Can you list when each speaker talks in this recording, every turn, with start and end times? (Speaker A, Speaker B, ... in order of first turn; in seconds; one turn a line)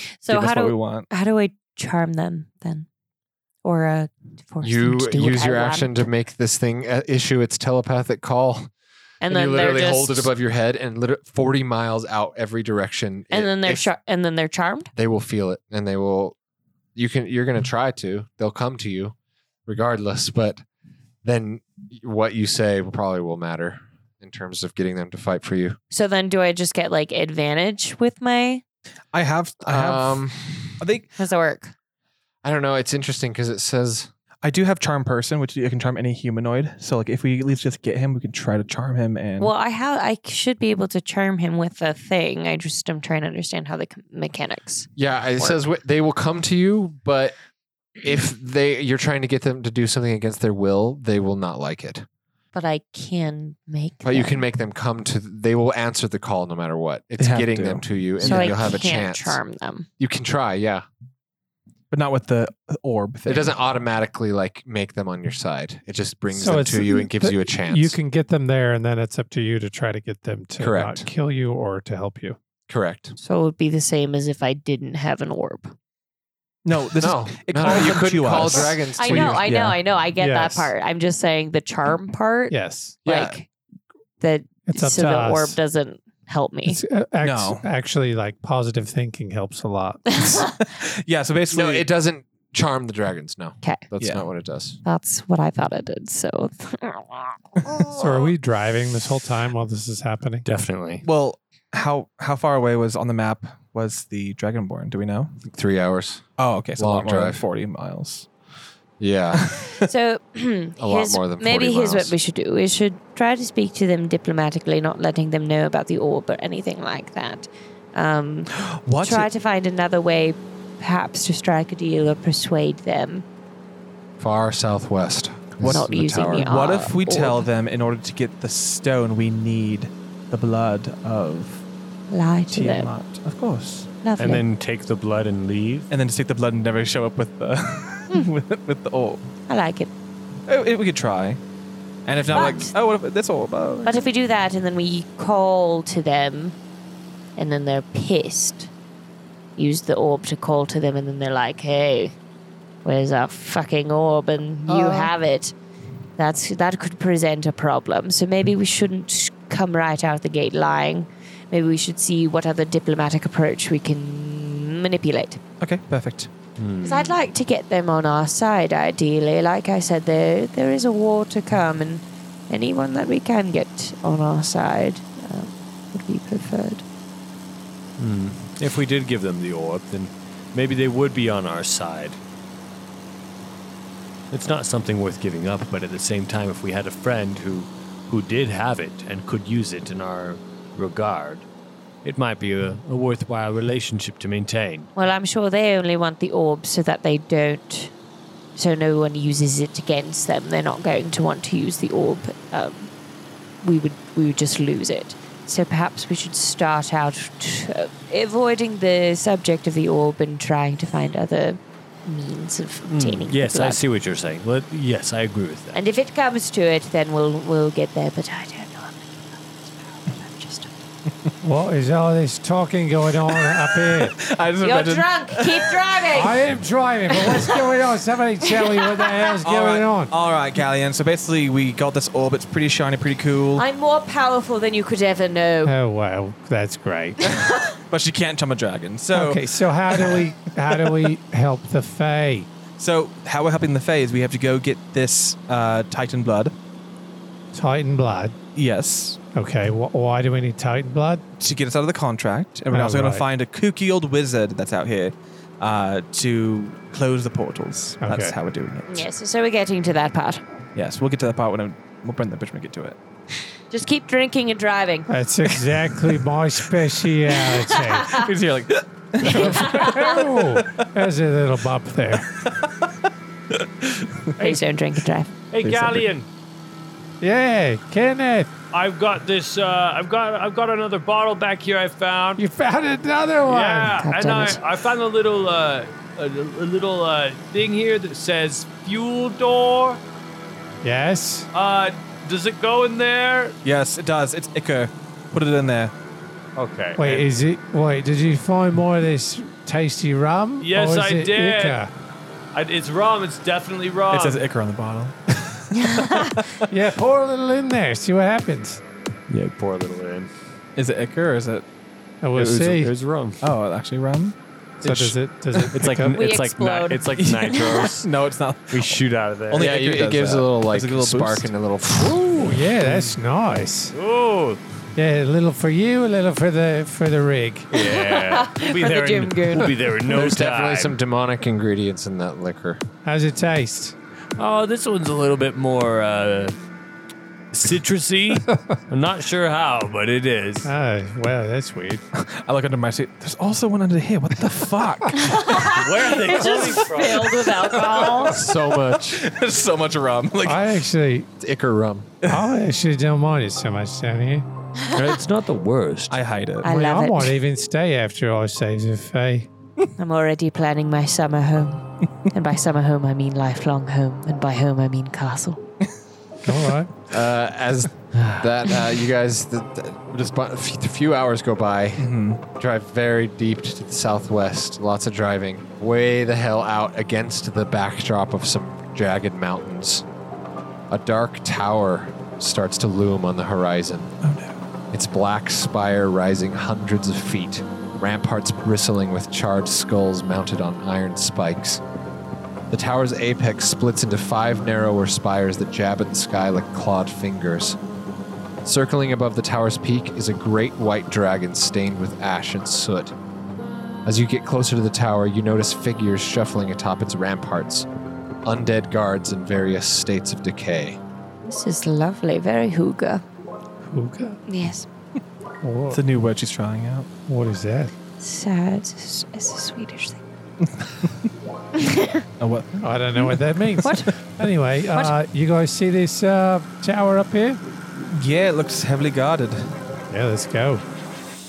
Speaker A: 0.2-2.9
Speaker B: 0.3-1.1
Speaker A: 3.6-6.0
Speaker C: 4.6-8.7
Speaker A: 9.2-10.3
Speaker C: 9.2-13.9
Speaker A: 13.3-14.9
Speaker C: 14.9-16.4
Speaker C: 17.0-19.1
Speaker C: 19.7-20.6
Speaker C: 21.2-25.8
Speaker A: 25.9-28.6
Speaker B: 29.1-30.2
Speaker C: 29.6-30.8
Speaker B: 30.8-31.1
Speaker A: 31.2-31.7
Speaker C: 32.4-34.1
Speaker B: 34.4-39.5
Speaker A: 39.4-45.5
Speaker C: 45.0-47.4
Speaker C: 48.0-52.1
Speaker A: 52.5-54.4
Speaker C: 54.0-59.4
Speaker B: 57.2-58.7
Speaker A: 58.2-59.9
Speaker C: 60.0-60.9
Speaker B: 61.9-63.6
Speaker C: 63.2-68.0
Speaker D: 66.3-72.4
Speaker C: 70.6-71.1
Speaker C: 72.7-73.2
Speaker A: 73.2-75.7
Speaker B: 76.7-79.8
Speaker C: 77.0-79.5
Speaker A: 78.5-83.5
Speaker D: 80.2-80.7
Speaker D: 82.5-83.0
Speaker C: 83.0-83.3
Speaker A: 84.2-86.8
Speaker D: 84.7-85.6
Speaker D: 86.7-90.4
Speaker B: 87.2-87.7
Speaker A: 90.1-90.5
Speaker B: 90.6-91.9
Speaker C: 91.5-94.8
Speaker B: 94.0-94.2
Speaker A: 94.8-97.8
Speaker D: 97.9-100.5
Speaker E: 100.5-101.0
Speaker B: 101.0-105.3
Speaker C: 105.5-106.3
Speaker B: 106.4-108.3
Speaker C: 106.8-107.4
Speaker C: 109.0-109.6
Speaker B: 109.4-109.8
Speaker A: 109.8-123.3
Speaker C: 110.8-112.1
Speaker B: 118.6-119.3
Speaker C: 124.2-126.5
Speaker B: 125.6-131.6
Speaker A: 125.7-127.5
Speaker A: 132.1-132.9
Speaker B: 132.5-133.9
Speaker A: 134.0-134.4
Speaker E: 134.2-135.9
Speaker B: 135.9-139.2
Speaker A: 139.5-139.9
Speaker B: 140.5-141.4
Speaker B: 142.1-144.1
Speaker A: 142.3-142.7
Speaker E: 142.3-142.6
Speaker A: 143.8-146.6
Speaker A: 147.4-148.7
Speaker A: 149.6-152.2
Speaker A: 152.8-155.5
Speaker C: 154.7-155.1
Speaker A: 156.2-165.4
Speaker B: 165.6-166.3
Speaker E: 166.6-167.2
Speaker A: 166.8-176.8
Speaker E: 178.0-182.2
Speaker E: 184.3-191.5
Speaker E: 192.0-194.9
Speaker A: 194.9-197.9
Speaker A: 198.6-202.9
Speaker A: 203.6-213.8
Speaker E: 212.8-215.8
Speaker A: 215.7-220.8
Speaker D: 221.4-224.2
Speaker B: 223.5-225.8
Speaker A: 224.6-226.4
Speaker D: 226.1-230.1
Speaker A: 227.1-227.6
Speaker A: 228.5-229.3
Speaker B: 229.4-233.7
Speaker A: 233.6-235.7
Speaker D: 235.7-237.2
Speaker A: 237.2-237.8
Speaker B: 237.9-240.2
Speaker D: 239.1-242.5
Speaker B: 240.7-241.1
Speaker B: 242.8-246.5
Speaker D: 247.5-248.4
Speaker B: 248.6-249.2
Speaker D: 249.3-251.2
Speaker B: 251.4-259.1
Speaker D: 252.7-253.2
Speaker D: 258.0-258.4
Speaker A: 258.9-260.4
Speaker B: 260.8-263.0
Speaker A: 263.7-265.1
Speaker D: 265.1-268.2
Speaker B: 265.9-266.1
Speaker A: 267.5-268.3
Speaker B: 268.1-270.7
Speaker A: 269.2-270.2
Speaker D: 269.3-272.3
Speaker B: 273.6-274.3
Speaker A: 274.4-275.4
Speaker F: 275.5-276.3
Speaker B: 275.7-276.0
Speaker D: 277.2-278.5
Speaker F: 278.7-282.4
Speaker D: 282.4-284.1
Speaker F: 283.4-290.0
Speaker A: 284.0-284.6
Speaker D: 290.8-291.5
Speaker F: 291.5-293.6
Speaker B: 293.6-295.9
Speaker F: 296.6-297.2
Speaker E: 296.6-297.0
Speaker D: 297.0-301.9
Speaker F: 300.6-301.8
Speaker F: 302.5-304.4
Speaker B: 304.1-306.6
Speaker A: 305.8-306.3
Speaker D: 306.7-308.8
Speaker E: 309.3-310.3
Speaker B: 310.8-311.6
Speaker D: 312.2-312.9
Speaker E: 312.4-313.4
Speaker B: 313.4-315.1
Speaker D: 314.8-316.2
Speaker E: 315.7-318.1
Speaker A: 316.1-317.6
Speaker B: 317.1-322.2
Speaker E: 318.7-319.8
Speaker C: 319.6-322.4
Speaker D: 322.4-323.9
Speaker E: 323.9-324.6
Speaker D: 325.0-327.7
Speaker E: 327.7-331.0
Speaker A: 327.9-329.7
Speaker C: 330.1-332.8
Speaker D: 333.1-334.0
Speaker E: 334.4-336.6
Speaker E: 337.5-340.7
Speaker D: 340.6-342.0
Speaker B: 342.1-345.7
Speaker A: 345.2-348.4
Speaker E: 345.8-346.5
Speaker F: 345.9-347.5
Speaker B: 347.1-350.7
Speaker C: 348.2-349.2
Speaker D: 350.4-351.3
Speaker C: 351.4-352.1
Speaker D: 352.3-354.5
Speaker E: 354.9-356.2
Speaker B: 356.1-356.7
Speaker A: 356.6-357.4
Speaker D: 356.6-359.5
Speaker A: 360.0-365.6
Speaker D: 366.4-366.9
Speaker C: 367.1-380.1
Speaker B: 372.0-372.4
Speaker C: 380.9-384.1
Speaker B: 384.2-384.6
Speaker C: 384.9-391.8
Speaker C: 392.7-397.8
Speaker C: 398.6-403.1
Speaker C: 404.1-407.9
Speaker C: 408.4-411.0
Speaker A: 411.5-413.2
Speaker D: 413.8-414.4
Speaker A: 414.5-414.9
Speaker D: 415.6-416.0
Speaker B: 415.9-417.1
Speaker D: 417.3-417.9
Speaker A: 418.2-420.2
Speaker B: 420.7-421.2
Speaker A: 421.8-422.2
Speaker B: 422.4-424.1
Speaker D: 422.8-427.6
Speaker A: 423.8-424.1
Speaker B: 428.1-429.7
Speaker D: 430.1-430.8